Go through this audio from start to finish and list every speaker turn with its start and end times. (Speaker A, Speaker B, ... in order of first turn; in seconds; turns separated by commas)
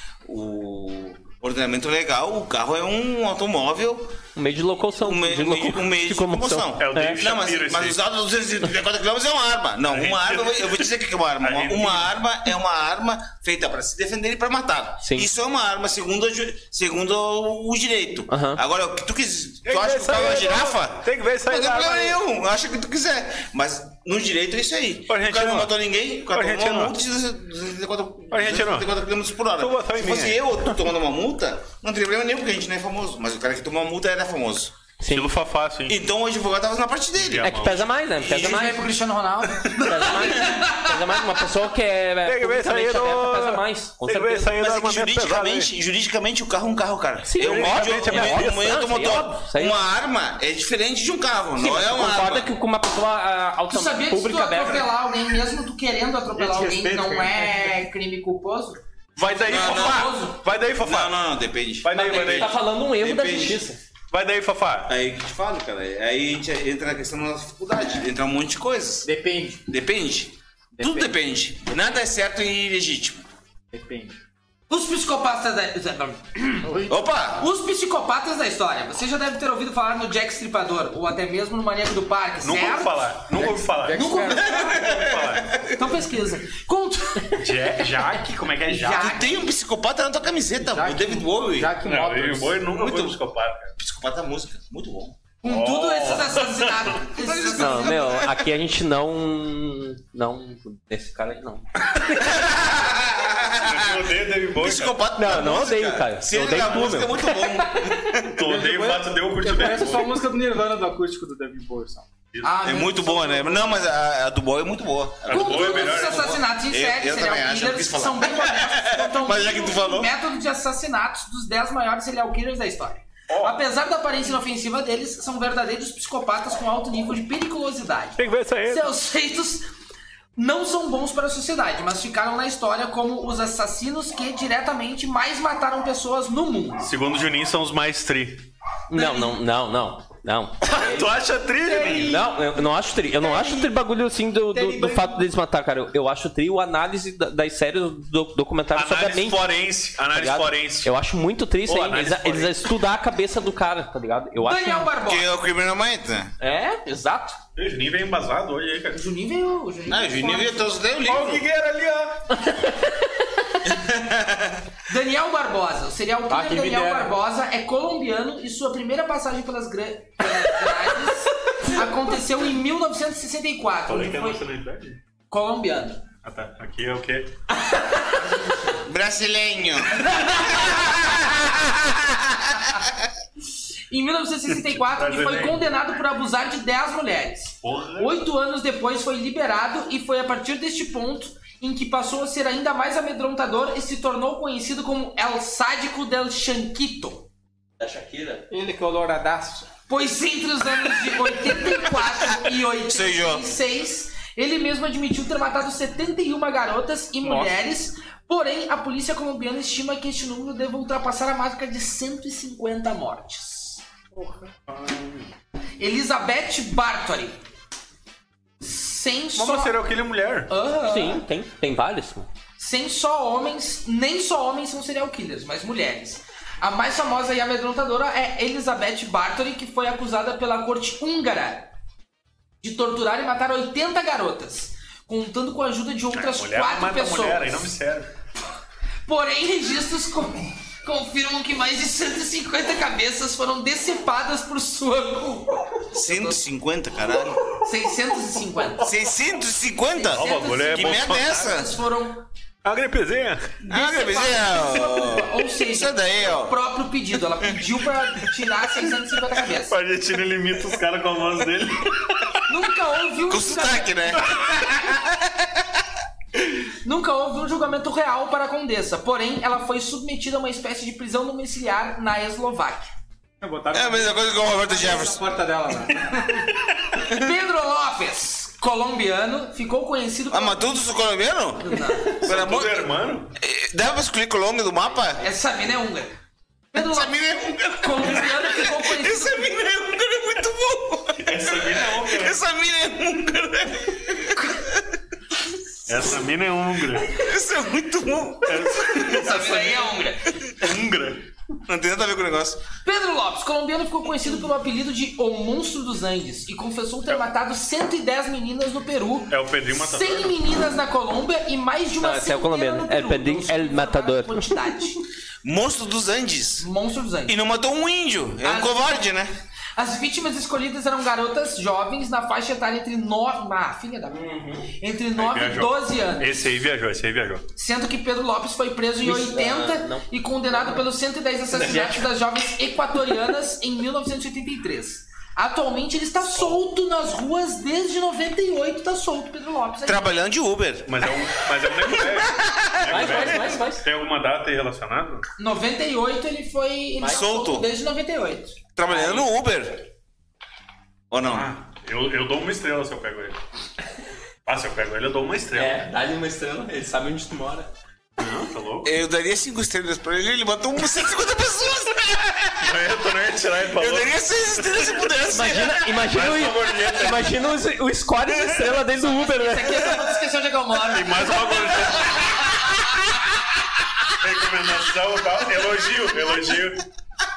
Speaker A: 0.2-4.2, Speaker B: 4.4-7.2, Speaker A: 5.0-34.7, Speaker C: 6.8-8.0, Speaker C: 9.9-10.9, Speaker C: 11.4-12.2, Speaker B: 15.0-15.3, Speaker B: 18.3-18.6, Speaker C: 19.7-22.2, Speaker C: 25.1-25.7, Speaker C: 26.3-26.9, Speaker C: 28.3-28.9, Speaker C: 29.6-30.6, Speaker B: 35.0-35.3, Speaker C: 35.1-36.0, Speaker A: 35.9-37.6, Speaker C: 37.2-37.9, Speaker B: 37.4-38.8, Speaker A: 38.2-38.7, Speaker D: 38.3-41.4, Speaker B: 39.8-44.5, Speaker C: 42.2-45.7, Speaker A: 44.5-52.5, Speaker B: 47.2-49.8, Speaker C: 47.4-49.3, Speaker B: 51.6-54.9, Speaker D: 53.7-58.8, Speaker E: 56.7-57.5, Speaker C: 59.2-61.2, Speaker A: 59.5-60.1, Speaker D: 59.5-60.4, Speaker A: 60.8-61.9, Speaker C: 61.8-62.6, Speaker B: 61.9-63.8, Speaker A: 63.0-63.6, Speaker C: 64.1-64.9, Speaker A: 64.9-69.1, Speaker E: 69.0-69.6, Speaker A: 69.7-73.2, Speaker E: 70.8-71.2, Speaker E: 73.7-74.2, Speaker D: 74.7-76.8, Speaker E: 76.6-77.0, Speaker A: 76.9-77.4, Speaker D: 77.4-83.2, Speaker C: 82.4-85.5, Speaker E: 83.3-84.9, Speaker D: 83.9-84.7, Speaker A: 84.3-85.9, Speaker D: 85.8-87.5, Speaker C: 87.3-89.3, Speaker D: 88.7-89.5, Speaker A: 88.9-91.8, Speaker E: 90.6-92.7, Speaker C: 91.8-93.7, Speaker A: 92.7-93.2, Speaker A: 93.8-95.2, Speaker D: 95.4-98.0, Speaker C: 95.5-97.0, Speaker A: 97.2-98.4, Speaker B: 97.5-101.8, Speaker A: 102.1-108.4, Speaker C: 103.5-105.0, Speaker B: 105.2-107.5, Speaker C: 108.2-110.2, Speaker E: 108.4-112.1, Speaker D: 112.4-113.6, Speaker A: 112.6-120.1, Speaker C: 115.3-116.4, Speaker D: 115.3-129.7, Speaker C: 123.3-123.6, Speaker C: 128.2-128.9, Speaker D: 130.4-136.9, Speaker C: 136.8-138.5, Speaker B: 138.9-141.1, Speaker D: 138.9-139.4, Speaker C: 140.6-142.2, Speaker D: 141.7-142.2, Speaker E: 141.7-142.2, Speaker B: 141.8-149.5, Speaker E: 143.2-143.7, Speaker E: 144.5-145.2, Speaker C: 148.8-150.9, Speaker B: 150.1-154.9, Speaker C: 151.7-152.7, Speaker D: 154.4-155.3, Speaker A: 155.0-156.3, Speaker B: 156.4-157.4, Speaker C: 157.6-159.0, Speaker D: 158.9-160.7, Speaker A: 159.9-161.4, Speaker C: 161.0-162.4, Speaker B: 162.5-163.1, Speaker A: 163.7-164.7, Speaker D: 164.9-174.4, Speaker E: 166.3-167.2, Speaker C: 173.9-175.0, Speaker D: 175.3-176.1, Speaker C: 176.2-177.3, Speaker D: 178.0-178.9, Speaker A: 178.8-182.7, Speaker D: 180.0-180.9, Speaker D: 183.9-197.3, Speaker C: 184.5-185.6, Speaker C: 187.6-188.2, Speaker B: 197.8-198.5, Speaker E: 198.5-199.7, Speaker D: 199.9-213.8, Speaker A: 202.9-203.4, Speaker E: 207.2-207.5, Speaker E: 214.2-214.5, Speaker C: 214.7-215.3, Speaker D: 215.8-217.4, Speaker D: 218.6-219.8, Speaker C: 219.4-220.5, Speaker D: 220.5-221.2, Speaker B: 220.9-222.3, Speaker D: 222.6-231.7, Speaker D: 232.6-237.7, Speaker C: 236.1-238.1, Speaker D: 239.1-246.4, Speaker A: 245.9-247.5, Speaker D: 247.6-248.9, Speaker A: 248.8-251.8, Speaker D: 249.9-252.2, Speaker C: 250.1-251.6, Speaker C: 252.6-253.5, Speaker D: 253.6-259.8, Speaker A: 253.7-256.6, Speaker C: 259.7-262.4, Speaker D: 262.5-264.2, Speaker A: 263.3-265.8, Speaker D: 266.8-272.9, Speaker E: 273.4-276.5, Speaker A: 273.7-275.2, Speaker D: 277.0-280.8, Speaker A: 280.3-285.2, Speaker D: 281.6-282.2, Speaker C: 282.1-283.4, Speaker D: 285.2-286.2, Speaker D: 286.7-287.1, Speaker A: 286.7-294.8, Speaker D: 287.7-289.6, Speaker C: 291.2-292.4, Speaker C: 295.9-297.2, Speaker A: 297.1-299.5, Speaker C: 298.5-299.9, Speaker D: 299.1-300.3, Speaker C: 300.5-301.2, Speaker A: 301.7-302.6, Speaker D: 302.8-315.0, Speaker C: 309.3-310.4, Speaker B: 312.0-314.9, Speaker A: 315.4-316.7, Speaker D: 316.6-317.4, Speaker A: 317.3-319.3, Speaker D: 318.4-319.1, Speaker D: 319.8-326.4, Speaker B: 324.1-324.7, Speaker C: 325.2-327.4, Speaker D: 327.6-340.1, Speaker B: 329.0-330.9, Speaker B: 331.5-332.1, Speaker C: 336.3-336.6, Speaker A: 339.9-341.1, Speaker C: 340.9-345.3, Speaker A: 341.8-343.3, Speaker B: 342.8-343.9, Speaker D: 345.4-348.6, Speaker B: 347.0-347.2, Speaker A: 347.0-347.7, Speaker A: 348.8-349.8, Speaker B: 348.9-349.3, Speaker A: 351.1-351.5, Speaker C: 351.2-353.4, Speaker C: 354.5-355.9, Speaker B: 355.6-357.7, Speaker C: 358.2-359.0, Speaker A: 358.8-362.9, Speaker C: 362.6-365.0, Speaker A: 363.7-366.1, Speaker B: 365.3-369.9, Speaker C: 366.1-367.5, Speaker D: 369.3-372.7, Speaker C: 370.8-372.5, Speaker C: 374.1-376.9